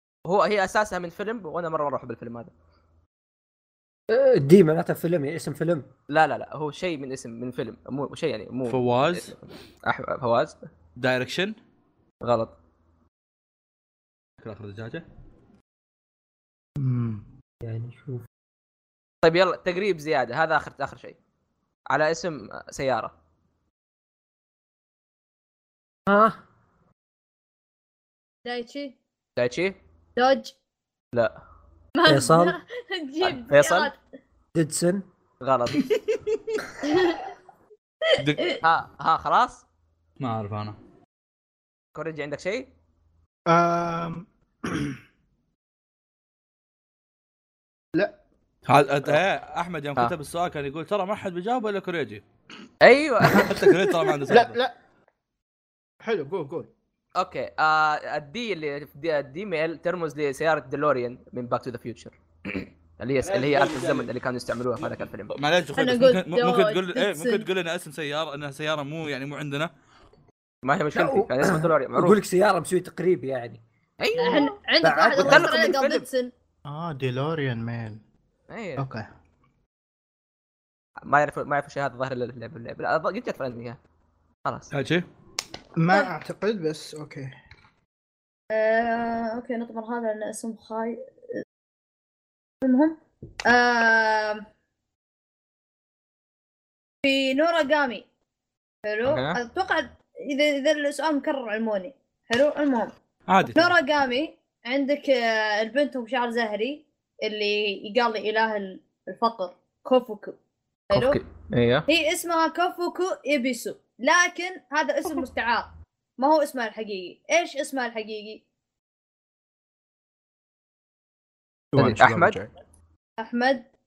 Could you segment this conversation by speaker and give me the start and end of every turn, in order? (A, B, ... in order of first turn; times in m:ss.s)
0:00.3-0:02.5 A
0:04.1-0:05.9 B
0:06.1-0:10.7 A
0:08.7-0:09.3 C
0:11.0-0:11.6 C
0:12.2-0:12.5 A
0:14.4-0:15.0 C
0:16.8-0:17.2 D
0:17.6-0:18.2 B
0:19.2-0:21.2 A
0:21.9-0:23.1 A
0:26.1-0:26.4 B
0:28.4-0:28.9 E
0:29.4-0:29.8 A
0:30.2-0:30.5 E
0:32.0-0:34.0 E
0:32.0-0:32.6 B
0:33.2-0:33.9 A
0:34.5-0:35.0 B
0:35.4-0:35.9 A
0:36.8-0:37.2 E
0:38.1-0:38.6 E
0:38.2-0:38.4 C
0:38.6-0:39.6 A
0:40.2-0:40.8 C
0:41.9-0:42.7 A
0:43.5-0:45.0 D
0:48.7-0:52.2 C
0:52.8-0:53.6 A
0:53.3-0:54.6 C
0:54.3-0:54.7 D
0:56.0-0:56.7 D
0:57.2-1:05.3 A
1:03.2-1:04.1 C
1:05.3-1:09.7 C
1:05.8-1:07.4 E
1:10.6-1:12.2 A
1:10.9-1:13.6 B
1:14.0-1:16.1 A
1:14.2-1:16.3 E
1:14.3-1:15.5 B
1:16.6-1:18.0 D
1:18.5-1:18.8 A
1:18.8-1:19.0 D
1:21.0-1:23.8 A
1:24.4-1:24.7 A
1:24.7-1:25.1 C
1:25.8-1:27.3 D
1:28.5-1:31.0 E
1:32.6-1:34.4 E
1:37.0-1:38.0 E
1:38.9-1:42.9 E
1:39.0-1:39.4 A
1:43.3-1:43.7 C
1:43.5-1:50.4 E
1:50.9-1:51.2 E
1:50.9-1:51.8 A
1:51.9-1:58.4 E
2:01.7-2:02.5 D
2:01.8-2:02.4 A
2:03.2-2:03.6 E